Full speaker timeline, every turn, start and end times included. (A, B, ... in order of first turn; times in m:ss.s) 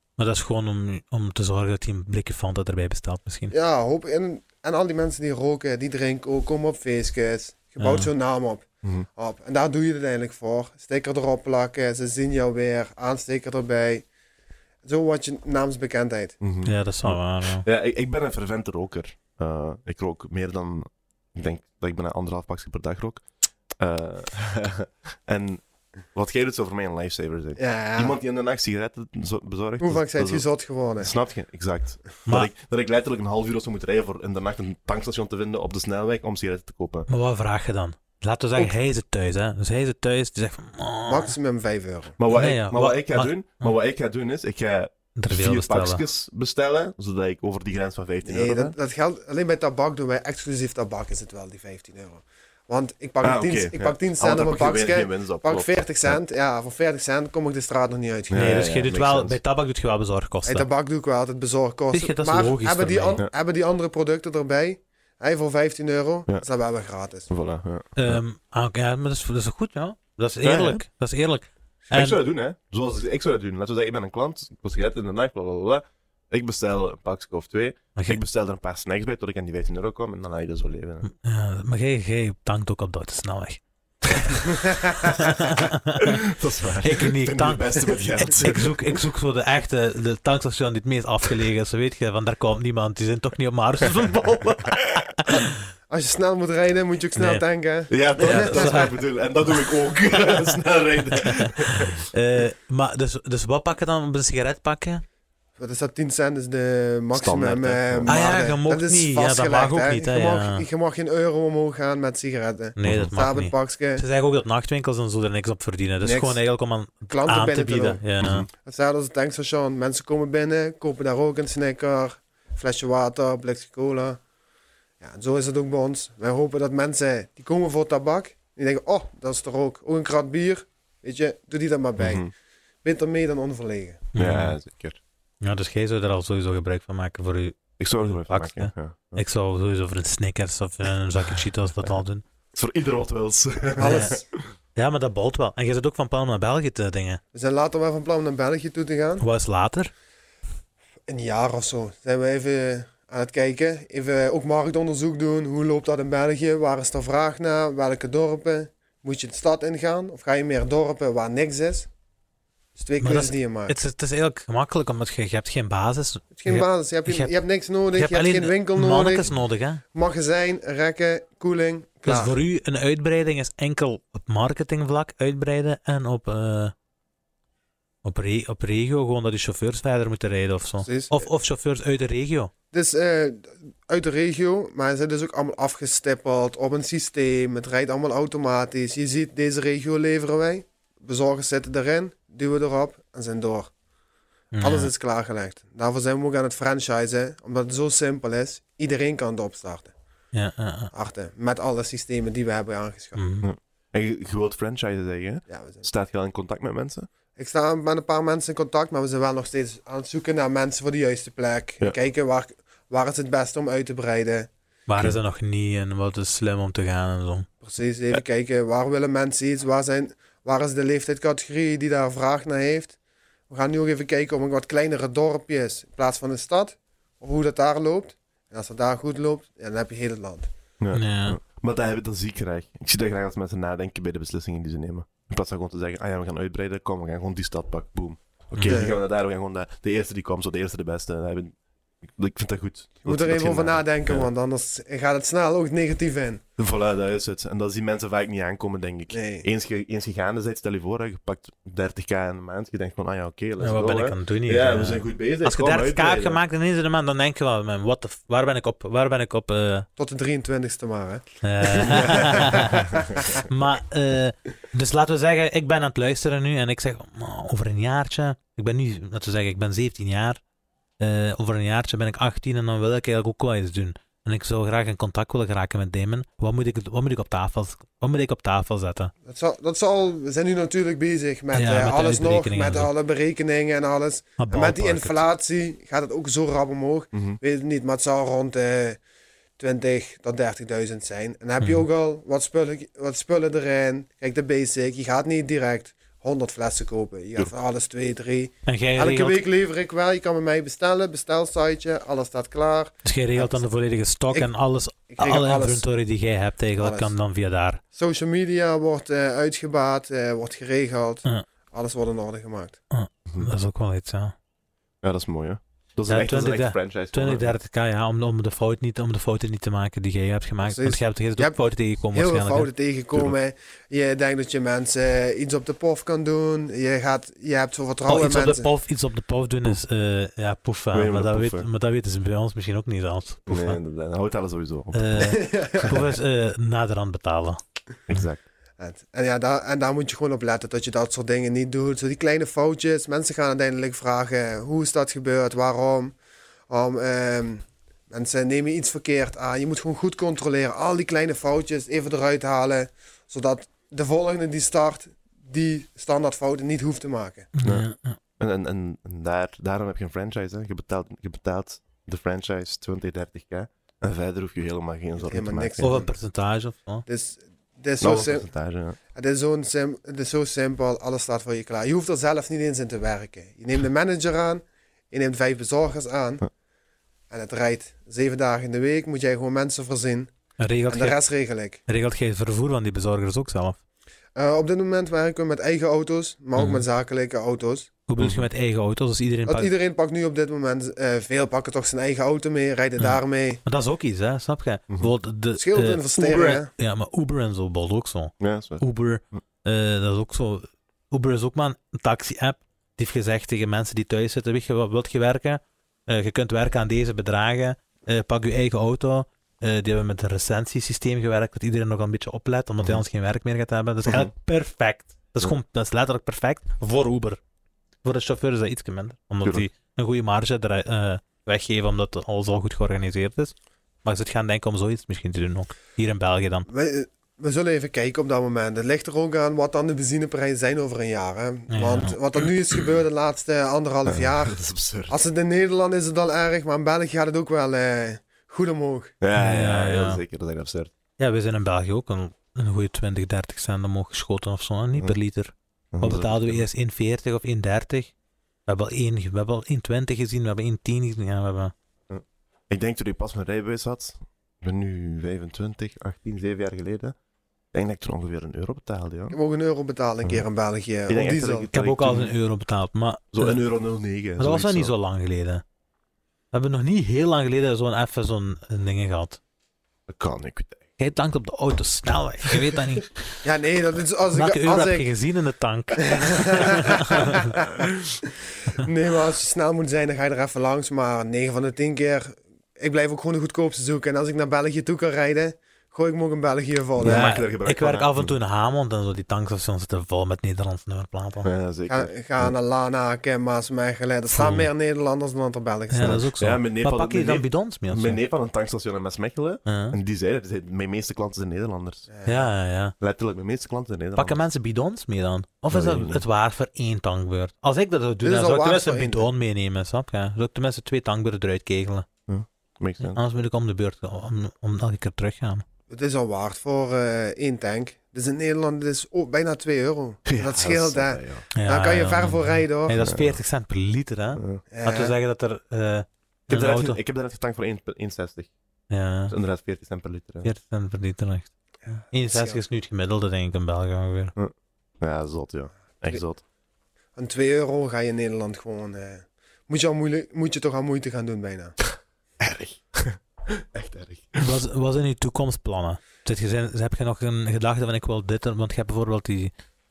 0:00.2-0:03.5 A
0:03.5-0:14.0 B
0:07.8-0:08.1 A
0:14.8-0:16.4 B
0:16.4-0:23.2 C
0:16.6-0:17.6 A
0:23.8-0:25.6 C
0:26.1-0:30.4 C
0:27.6-0:28.2 B
0:29.8-0:31.1 B
0:31.0-0:37.1 C
0:37.1-0:41.3 A
0:41.1-0:42.2 B
0:42.2-0:48.8 C
0:42.3-0:43.7 A
0:45.2-0:46.0 A
0:48.2-0:58.5 B
0:53.2-0:56.2 C
0:58.3-0:59.4 C
0:58.3-1:00.7 A
1:00.4-1:07.3 B
1:01.9-1:03.2 A
1:07.3-1:08.2 C
1:08.0-1:12.2 A
1:10.4-1:10.8 C
1:11.9-1:21.1 C
1:18.0-1:18.2 A
1:21.0-1:35.6 A
1:26.2-1:29.0 C
1:35.9-1:38.9 B
1:37.2-1:37.4 A
1:37.9-1:42.0 C
1:38.2-1:39.0 A
1:41.2-1:45.0 A
1:45.6-1:54.0 B
1:47.1-1:48.2 C
1:48.1-1:50.6 A
1:52.8-1:58.4 A
1:52.8-1:53.1 C
1:56.0-1:56.4 B
1:57.1-1:58.0 B
1:58.2-1:58.5 C
1:58.5-2:04.2 B
2:05.0-2:12.3 B
2:12.0-2:12.3 C
2:12.8-2:14.0 B
2:14.1-2:14.6 A
2:14.1-2:15.0 C
2:15.4-2:22.2 A
2:17.8-2:19.2 C
2:22.5-2:24.2 C
2:23.8-2:24.2 B
2:23.8-2:24.1 A
2:24.8-2:27.2 A
2:27.3-2:29.2 B
2:29.2-2:29.9 A
2:31.1-2:41.9 B
2:42.8-2:43.8 B
2:43.0-2:47.3 A
2:46.3-2:49.3 B
2:47.9-2:49.8 A
2:49.9-2:52.4 B
2:52.0-2:56.7 A
2:58.0-3:02.5 A
3:00.8-3:01.3 B
3:02.7-3:13.7 B
3:14.5-3:14.9 A
3:14.6-3:19.9 B
3:20.3-3:20.9 A
3:20.9-3:23.2 B
3:23.2-3:23.5 A
3:23.4-3:27.1 C
3:25.5-3:25.8 B
3:27.4-3:34.5 B
3:34.9-3:37.5 A
3:37.6-3:43.0 B
3:43.5-3:50.5 B
3:50.8-4:04.3 C
3:50.9-3:51.4 A
3:58.6-3:58.8 A
3:58.7-3:59.0 B
4:03.0-4:06.4 B
4:06.6-4:16.4 C
4:09.1-4:09.4 B
4:13.6-4:19.9 A
4:20.0-4:23.3 B
4:21.4-4:30.4 A
4:31.0-4:39.1 A
4:39.2-4:49.0 B
4:41.5-4:42.9 A
4:44.4-4:45.2 A
4:47.1-4:47.4 C
4:49.6-5:03.6 B
4:51.6-4:51.8 A
4:58.6-4:59.4 A
5:03.0-5:07.8 A
5:05.1-5:05.8 B
5:06.8-5:07.1 B
5:07.9-5:12.8 B
5:12.9-5:14.3 A
5:15.0-5:17.6 C
5:16.1-5:22.7 A
5:20.6-5:21.6 B
5:22.1-5:28.7 B
5:28.1-5:33.8 A
5:30.9-5:31.7 C
5:33.5-5:36.0 C
5:34.9-5:37.6 A
5:35.2-5:36.1 B
5:38.1-5:38.4 C
5:38.8-5:46.2 B
5:46.7-5:57.5 B
5:57.6-5:58.2 A
5:58.4-6:06.0 C
6:05.2-6:06.1 B
6:05.8-6:07.0 A
6:07.0-6:08.5 B
6:08.0-6:09.0 C
6:09.1-6:16.4 B
6:17.3-6:20.3 B
6:20.6-6:21.2 A
6:20.9-6:21.8 B
6:21.9-6:23.8 A
6:24.3-6:27.9 B
6:26.6-6:26.8 A
6:28.1-6:29.7 A
6:28.2-6:28.4 C
6:29.5-6:33.6 B
6:33.0-6:57.4 A
6:35.5-6:36.7 B
6:38.4-6:38.8 C
6:54.0-6:54.3 C
6:58.0-7:06.7 A
7:06.7-7:19.1 B
7:11.7-7:12.2 A
7:14.0-7:15.2 C
7:19.2-7:20.9 C
7:19.3-7:20.2 A
7:21.2-7:28.1 A
7:25.9-7:26.6 C
7:28.6-7:31.7 A
7:32.1-7:37.1 C
7:37.7-7:39.4 C
7:39.3-7:41.7 B
7:41.1-7:42.3 C
7:41.7-7:43.6 A
7:43.3-7:44.9 C
7:44.4-7:45.6 A
7:46.5-7:49.4 A
7:50.1-7:50.8 C
7:51.0-7:53.2 A
7:53.4-7:55.1 B
7:54.3-7:57.5 A
7:56.0-7:57.5 B
7:58.7-8:07.3 B
8:07.0-8:08.3 C
8:07.0-8:11.5 A
8:11.4-8:12.5 C
8:11.9-8:16.2 B
8:14.3-8:14.7 A
8:15.9-8:18.2 A
8:16.0-8:22.1 C
8:19.6-8:20.0 A
8:22.1-8:22.5 B
8:22.3-8:22.9 A
8:23.0-8:24.4 C
8:24.2-8:32.1 A
8:25.7-8:26.2 C
8:28.2-8:29.3 B
8:32.3-8:33.2 C
8:33.0-8:35.6 A
8:35.9-8:43.0 B
8:40.2-8:41.5 C
8:41.5-8:47.0 A
8:43.0-8:43.4 C
8:44.4-8:44.6 C
8:44.7-8:45.1 B
8:46.5-8:48.5 C
8:48.9-8:49.3 A
8:49.3-8:50.5 C
8:50.4-8:54.3 A
8:52.1-8:52.6 B
8:54.4-8:56.4 C
8:57.2-9:01.8 B
9:02.4-9:04.5 C
9:04.4-9:09.5 A